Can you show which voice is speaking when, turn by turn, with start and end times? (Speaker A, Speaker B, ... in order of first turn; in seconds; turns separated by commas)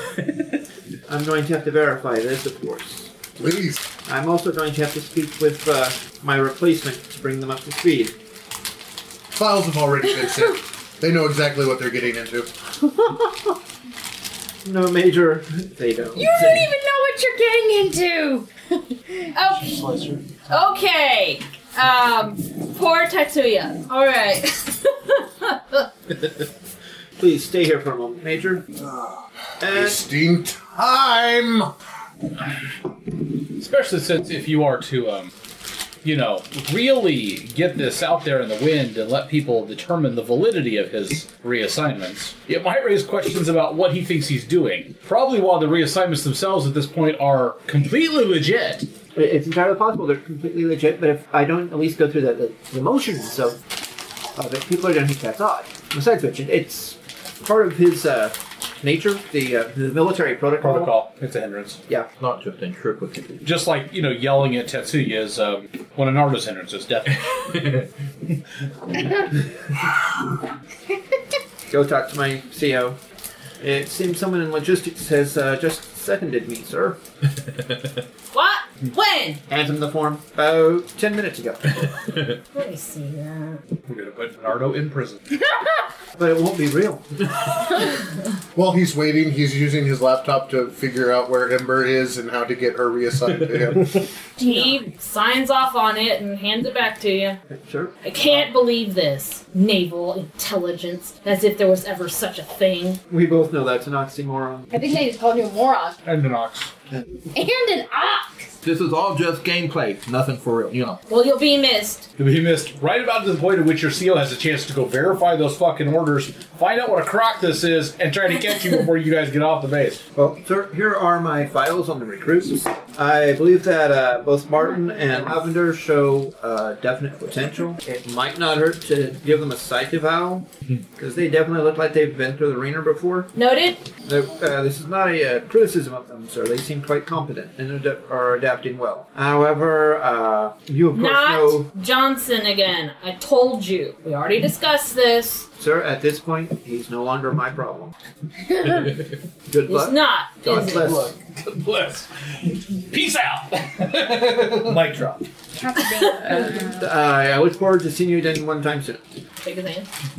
Speaker A: 1.1-3.1, Speaker B: 3.4-3.8, Speaker A: 4.0-8.2, Speaker B: 9.3-12.5, Speaker A: 13.0-13.4, Speaker A: 14.6-16.7, Speaker C: 16.1-18.5, Speaker D: 19.3-19.8, Speaker E: 19.6-20.2, Speaker D: 20.5-25.9, Speaker A: 27.2-28.6, Speaker B: 28.8-31.7, Speaker A: 29.6-30.0, Speaker E: 33.6-35.3, Speaker E: 36.0-48.9, Speaker A: 49.1-53.6, Speaker A: 54.4-60.9, Speaker E: 60.6-61.8, Speaker F: 62.2-63.4, Speaker E: 63.4-67.6, Speaker A: 71.7-73.0, Speaker A: 73.6-77.0, Speaker D: 78.3-79.4, Speaker A: 79.5-81.9, Speaker D: 82.5-83.6, Speaker E: 83.9-85.2, Speaker A: 86.2-87.1, Speaker B: 88.5-94.0, Speaker C: 94.4-94.8, Speaker D: 94.4-97.4, Speaker A: 97.5-98.5, Speaker D: 98.0-103.0, Speaker A: 103.1-104.7, Speaker C: 104.7-106.0, Speaker E: 106.0-106.7, Speaker C: 107.3-108.5, Speaker F: 108.6-111.0, Speaker D: 111.1-112.0, Speaker E: 112.2-120.0, Speaker A: 120.1-133.3, Speaker D: 133.3-133.8, Speaker A: 134.0-141.7, Speaker D: 140.9-145.4, Speaker A: 145.6-147.9, Speaker A: 149.5-151.1, Speaker D: 149.7-151.0, Speaker E: 150.5-155.2, Speaker C: 155.6-156.9, Speaker A: 156.2-159.0, Speaker D: 159.4-159.9